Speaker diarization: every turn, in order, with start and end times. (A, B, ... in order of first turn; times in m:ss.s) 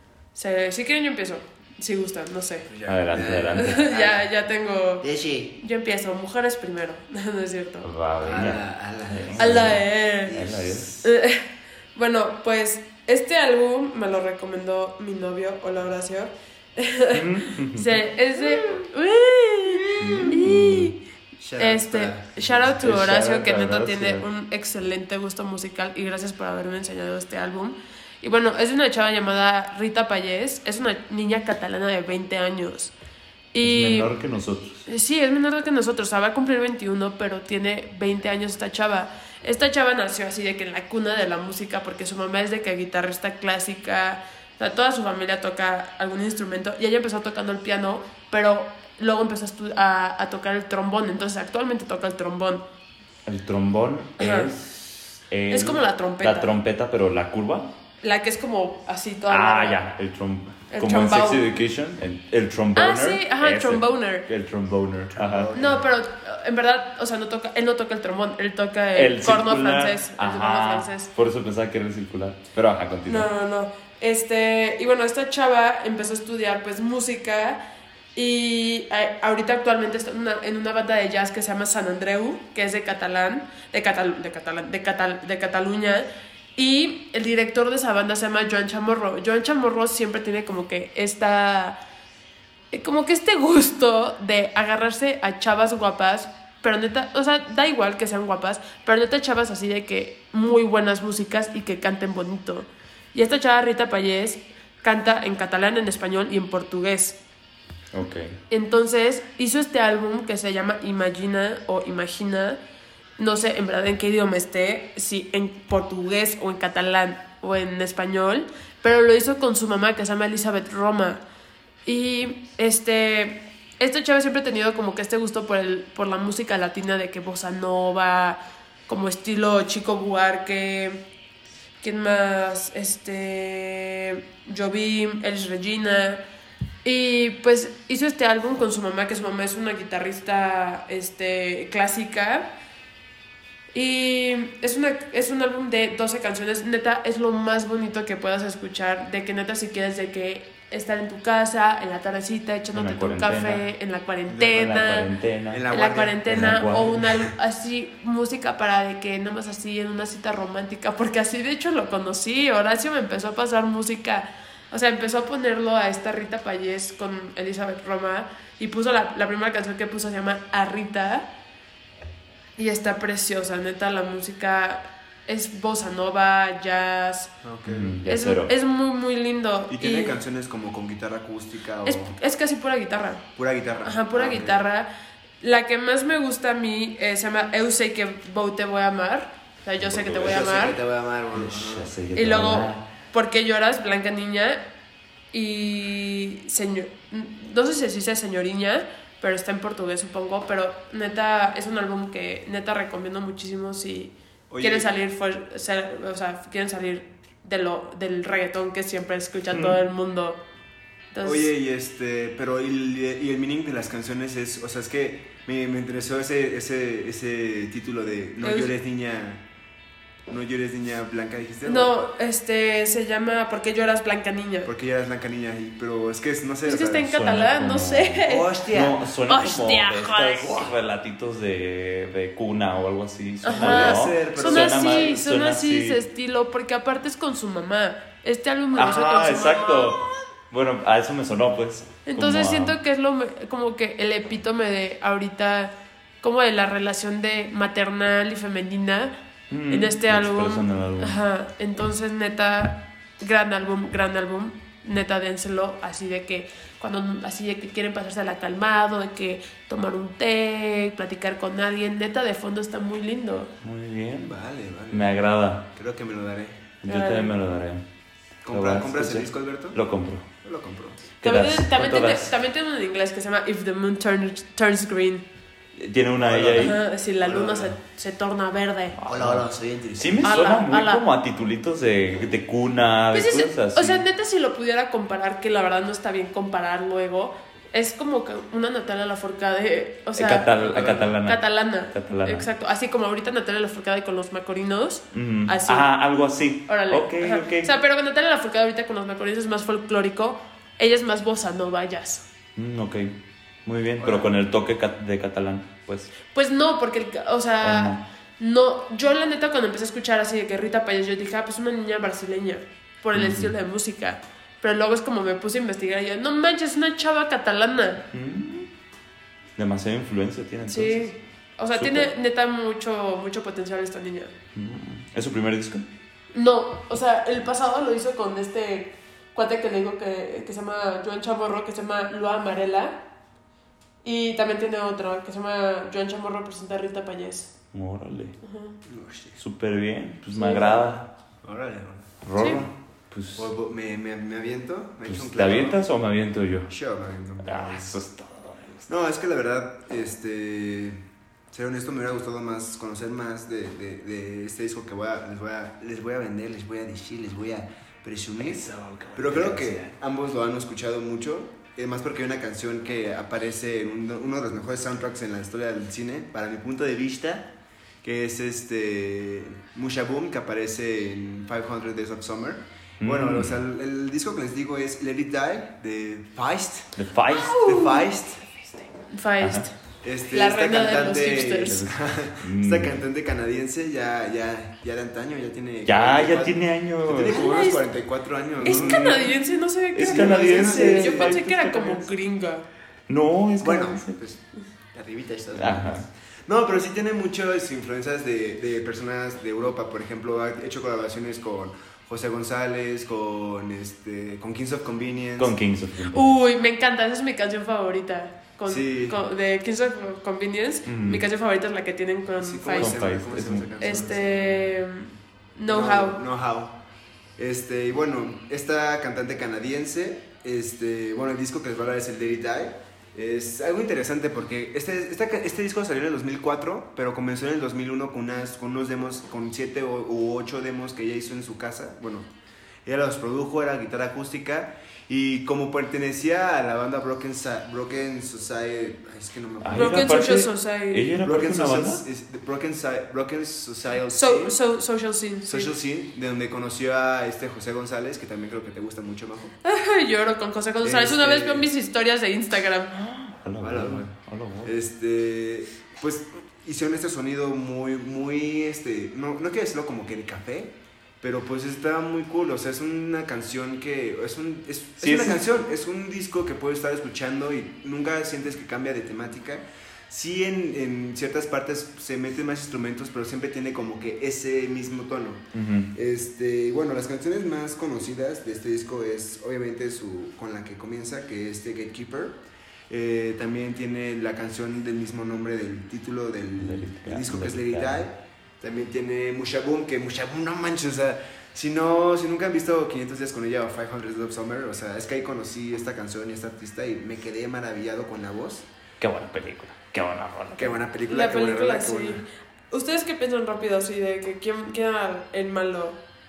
0:00.3-0:02.7 A
0:02.7-0:04.3 B
0:02.8-0:03.8 C
0:03.4-0:07.9 A
0:05.0-0:05.6 B
0:07.8-0:10.9 C
0:08.2-0:11.1 B
0:09.4-0:10.4 A
0:11.0-0:21.0 A
0:17.1-0:18.0 C
0:20.0-0:20.4 B
0:20.0-0:20.9 C
0:21.4-0:22.8 B
0:21.6-0:32.9 A
0:22.8-0:24.2 C
0:33.5-0:34.1 A
0:33.6-0:34.8 C
0:34.9-0:52.6 A
0:53.2-0:57.7 C
0:54.2-0:54.5 A
0:55.5-0:56.5 A
0:58.0-0:59.8 A
0:59.3-1:05.5 C
1:00.7-1:01.5 A
1:02.8-1:04.2 A
1:05.1-1:05.9 B
1:05.5-1:11.1 A
1:08.9-1:13.3 C
1:13.0-1:31.8 A
1:32.7-1:47.2 A
1:47.9-1:48.4 C
1:48.5-1:52.6 A
1:53.2-2:01.2 A
2:01.8-2:11.0 A
2:11.8-2:16.2 A
2:16.8-2:22.5 A
2:23.7-2:35.1 A
2:32.7-2:33.6 C
2:34.3-2:35.6 C
2:35.5-2:37.1 B
2:35.7-2:51.3 A
2:36.3-2:37.0 C
2:52.6-2:57.3 A
2:57.4-2:58.0 B
2:57.7-2:58.5 C
2:58.0-3:00.2 A
2:59.7-3:02.1 B
3:01.8-3:03.2 A
3:03.4-3:04.6 B
3:03.8-3:04.9 A
3:05.4-3:10.8 A
3:09.8-3:12.0 B
3:11.3-3:12.8 C
3:12.1-3:14.6 A
3:15.3-3:30.4 A
3:24.5-3:24.9 B
3:29.5-3:29.8 C
3:31.1-3:31.5 A
3:31.2-3:39.4 B
3:38.4-3:38.7 A
3:40.3-3:41.9 B
3:41.6-3:44.7 A
3:44.6-3:47.3 B
3:46.6-3:48.6 A
3:47.1-3:56.0 C
3:48.2-3:49.0 B
3:49.3-3:50.7 A
3:53.4-4:00.1 A
3:53.5-3:55.2 B
3:58.7-4:02.8 C
4:02.1-4:09.1 A
4:09.5-4:11.2 C
4:09.7-4:23.5 A
4:23.6-4:24.3 C
4:24.2-4:25.1 B
4:24.9-4:25.7 C
4:25.7-4:26.7 B
4:26.8-4:27.8 C
4:26.8-4:27.3 A
4:28.4-4:29.8 B
4:28.5-4:30.3 C
4:30.4-4:31.0 B
4:31.2-4:32.3 C
4:31.2-4:35.2 A
4:35.8-4:36.8 C
4:36.2-4:37.7 B
4:36.6-4:39.0 A
4:39.0-4:44.0 C
4:39.1-4:40.4 B
4:40.2-4:41.0 A
4:43.1-4:55.9 A
4:50.2-4:52.5 C
4:50.6-4:51.1 B
4:55.1-4:57.7 C
4:56.7-5:02.2 A
5:02.6-5:06.1 C
5:04.0-5:04.3 B
5:06.3-5:18.0 A
5:07.6-5:08.0 C
5:13.1-5:13.5 C
5:18.1-5:18.7 C
5:19.6-5:21.1 C
5:20.7-5:24.3 A
5:21.7-5:22.1 C
5:24.5-5:25.8 C
5:26.3-5:33.0 A
5:34.0-5:37.5 A
5:37.7-5:38.4 C
5:38.4-5:38.8 A
5:38.8-5:39.4 B
5:39.4-5:41.1 C
5:40.3-5:40.9 A
5:41.4-5:42.1 B
5:42.2-5:43.5 C
5:42.4-5:42.6 A
5:43.4-5:45.8 B
5:45.0-5:46.7 C
5:46.7-5:48.0 B
5:47.4-5:48.9 C
5:48.9-6:16.9 B
5:58.4-5:59.9 C
6:13.0-6:13.6 C
6:17.0-6:17.6 C
6:17.3-6:18.1 A
6:17.5-6:18.5 B
6:19.1-6:19.7 A
6:19.4-6:19.7 C
6:20.0-6:29.4 B
6:20.3-6:21.8 A
6:21.7-6:23.0 C
6:25.8-6:27.6 C
6:27.3-6:27.8 A
6:28.6-6:32.6 A
6:28.6-6:29.2 C
6:29.9-6:32.1 C
6:30.0-6:31.4 B
6:33.1-6:34.2 C
6:33.6-6:45.6 B
6:35.5-6:36.0 C
6:45.4-6:46.4 C
6:46.1-6:53.0 A
6:48.6-6:49.2 B
6:50.8-6:51.2 C
6:52.4-6:54.8 B
6:52.7-6:53.7 C
6:53.8-6:56.2 A
6:55.7-6:56.8 B
6:57.4-7:12.3 B
7:12.8-7:20.3 B
7:19.6-7:22.0 C
7:19.7-7:21.2 A
7:21.2-7:24.6 B
7:24.1-7:25.7 A
7:25.4-7:29.5 B
7:29.6-7:33.0 A
7:30.8-7:31.7 B
7:32.9-7:34.7 C
7:33.6-7:34.1 B
7:34.6-8:18.7 B
7:45.0-7:45.4 C
7:55.5-7:55.9 C
8:06.6-8:08.1 C
8:19.0-8:20.8 C
8:20.6-8:22.2 B
8:21.0-8:26.0 A